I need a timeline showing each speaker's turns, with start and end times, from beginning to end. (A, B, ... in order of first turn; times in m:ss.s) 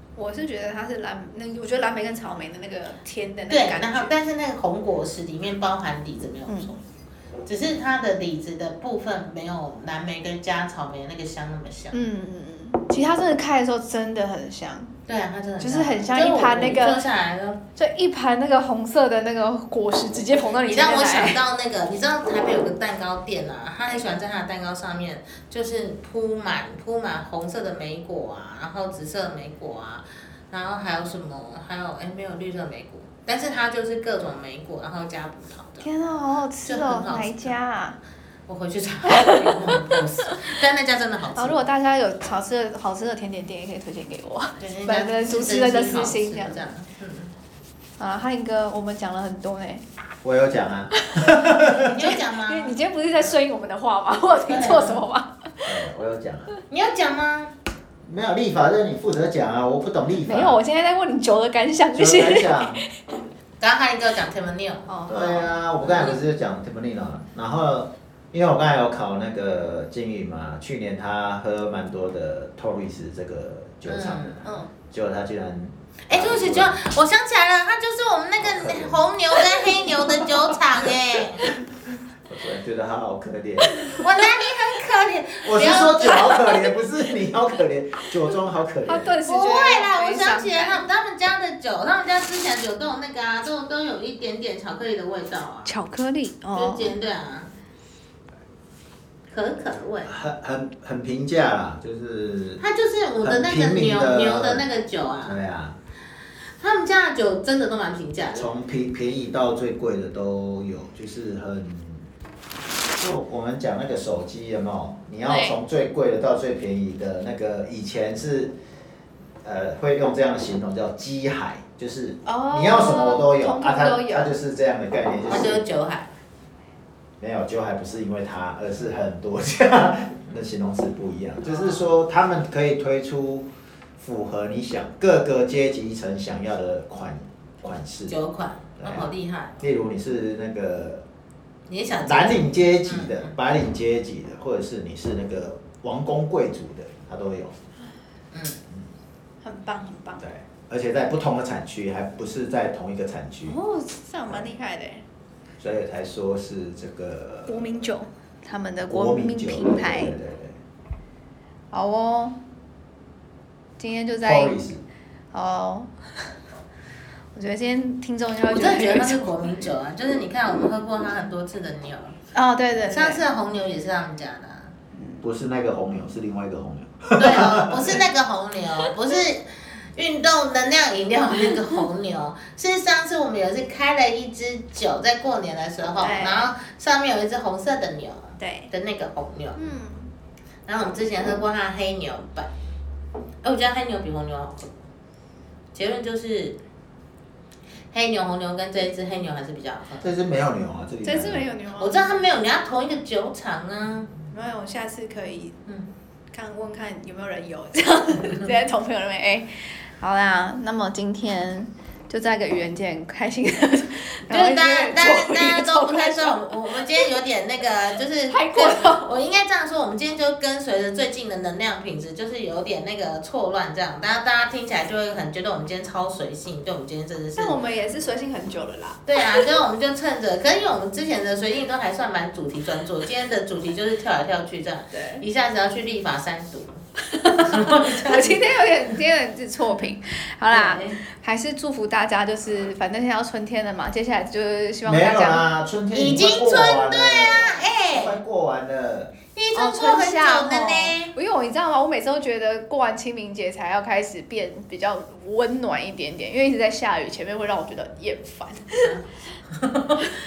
0:00.2-0:04.1 A
0:03.5-0:06.8 B
0:06.5-0:06.7 A
0:07.5-0:12.0 B
0:11.9-0:14.9 A
0:15.1-0:17.6 B
0:15.6-0:17.0 A
0:17.8-0:21.4 A
0:20.6-0:35.9 B
0:35.8-0:38.0 A
0:36.7-0:37.5 B
0:38.5-0:41.6 B
0:39.1-0:40.5 A
0:41.4-0:46.7 A
0:44.6-0:47.3 B
0:48.0-0:49.8 A
0:50.2-0:52.2 C
0:51.0-0:55.7 A
0:51.8-0:52.8 B
0:54.4-0:55.0 B
0:55.6-0:56.5 C
0:56.7-0:57.5 B
0:58.0-1:00.6 C
1:00.3-1:02.9 A
1:01.9-1:02.8 C
1:03.6-1:04.9 B
1:04.9-1:06.1 A
1:05.1-1:16.8 C
1:13.9-1:14.5 B
1:14.4-1:14.7 A
1:16.1-1:21.5 B
1:18.4-1:19.0 C
1:22.3-1:24.0 C
1:23.8-1:24.0 A
1:24.0-1:26.8 B
1:25.4-1:29.2 C
1:28.9-1:30.8 A
1:29.3-1:35.7 B
1:35.6-1:37.0 A
1:36.5-1:37.5 B
1:39.3-1:40.1 B
1:40.1-1:42.6 C
1:42.6-1:45.4 B
1:43.2-1:44.6 C
1:45.2-1:45.8 C
1:46.6-1:48.5 B
1:48.3-1:52.1 C
1:53.0-1:58.5 C
1:55.2-1:55.6 A
1:59.4-2:05.6 C
2:02.3-2:04.3 A
2:05.3-2:06.1 B
2:07.2-2:18.2 C
2:11.5-2:11.8 A
2:18.1-2:19.6 B
2:18.8-2:21.0 C
2:21.7-2:23.3 B
2:22.0-2:27.6 C
2:28.3-2:28.6 B
2:29.4-2:30.3 A
2:30.2-2:33.6 C
2:33.5-2:35.0 A
2:35.6-2:37.7 C
2:37.5-2:40.2 A
2:38.9-2:40.6 C
2:41.7-2:42.4 A
2:43.8-2:44.6 A
2:44.2-2:44.8 C
2:45.3-2:45.9 A
2:47.3-2:49.7 A
2:48.5-2:52.2 B
2:52.3-2:53.2 A
2:52.9-2:54.7 B
2:55.2-2:58.0 C
2:57.2-3:09.6 B
3:06.0-3:06.5 A
3:08.4-3:08.7 A
3:09.6-3:10.1 A
3:10.7-3:12.5 B
3:13.4-3:14.7 B
3:15.7-3:16.6 B
3:17.9-3:20.1 B
3:20.0-3:21.4 C
3:21.0-3:22.1 A
3:21.8-3:24.2 B
3:24.3-3:25.6 A
3:26.3-3:37.1 A
3:34.3-3:47.6 B
3:38.3-3:39.1 A
3:47.4-3:49.4 A
3:49.1-3:56.8 B
3:54.9-3:55.2 A
3:57.1-4:05.4 A
3:57.3-3:58.5 B
4:00.5-4:01.0 B
4:04.8-4:09.2 C
4:05.9-4:08.2 B
4:09.4-4:11.1 B
4:09.5-4:19.0 A
4:19.5-4:20.1 B